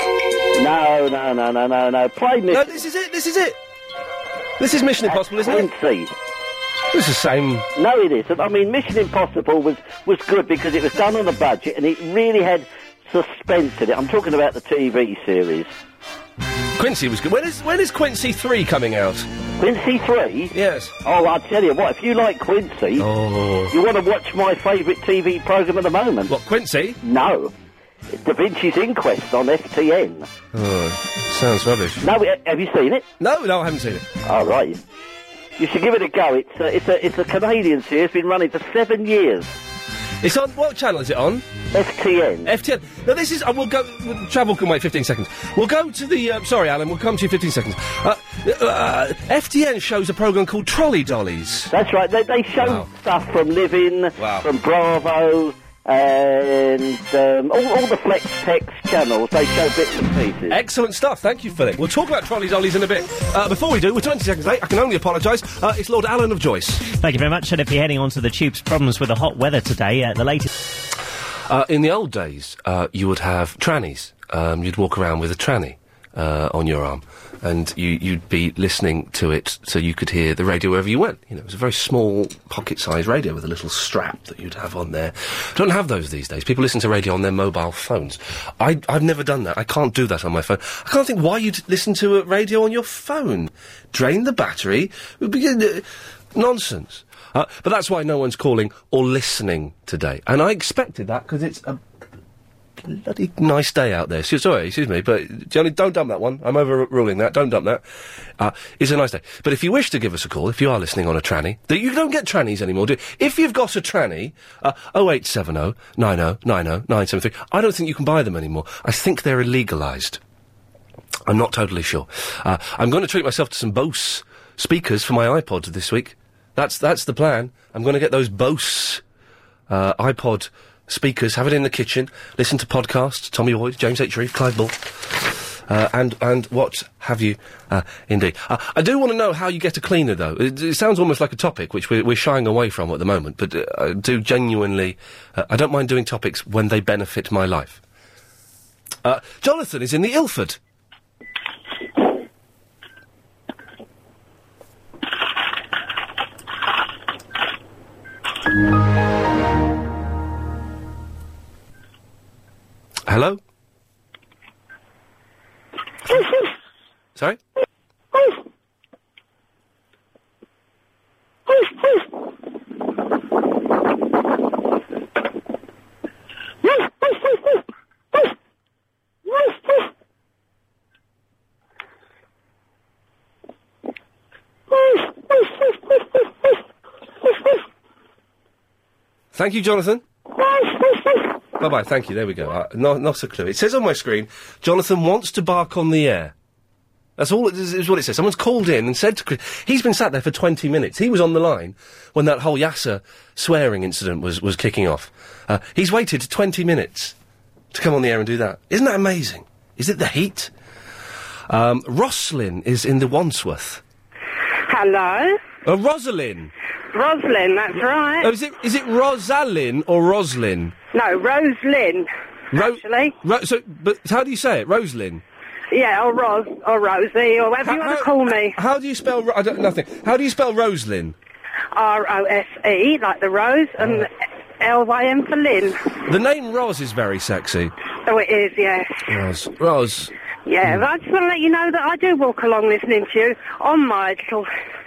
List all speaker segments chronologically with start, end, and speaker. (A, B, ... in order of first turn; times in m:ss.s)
0:00.5-0:02.8 A
0:02.5-0:03.6 B
0:04.6-0:05.7 B
0:05.0-0:06.1 A
0:06.9-0:07.7 B
0:07.7-0:15.7 A
0:16.8-0:19.3 B
0:19.6-0:23.1 A
0:20.5-0:21.0 B
0:23.0-0:23.8 B
0:23.7-0:26.3 A
0:26.3-0:27.0 B
0:27.0-0:27.5 A
0:28.1-0:30.3 A
0:30.5-0:32.1 B
0:32.0-0:33.1 A
0:33.2-0:34.1 B
0:34.2-0:34.8 A
0:35.6-0:39.5 A
0:40.2-0:41.5 B
0:41.7-0:42.5 A
0:42.4-0:51.7 B
0:51.7-1:00.6 A
0:52.6-0:52.9 B
0:54.2-0:54.5 B
1:00.5-1:06.9 B
1:06.9-1:10.5 C
1:11.5-1:41.8 B
1:42.8-1:47.8 B
1:48.4-2:00.2 B
2:01.3-2:09.0 B
2:09.7-2:27.8 B
2:29.0-2:30.6 B
2:43.1-2:43.4 B
3:09.3-3:10.0 B
3:11.6-3:16.3 B
3:17.2-3:27.2 B
3:27.7-3:30.5 B
3:31.5-3:33.8 B
3:34.7-3:35.4 D
3:35.6-3:36.5 B
3:36.9-3:38.3 D
3:38.2-3:40.8 B
3:40.9-3:43.2 D
3:42.5-3:45.2 B
3:45.7-3:48.6 D
3:47.6-3:51.2 B
3:51.7-3:55.9 D
3:53.8-3:54.1 B
3:56.1-3:57.7 B
3:58.1-3:59.2 D
3:59.1-4:00.1 B
4:00.5-4:04.5 D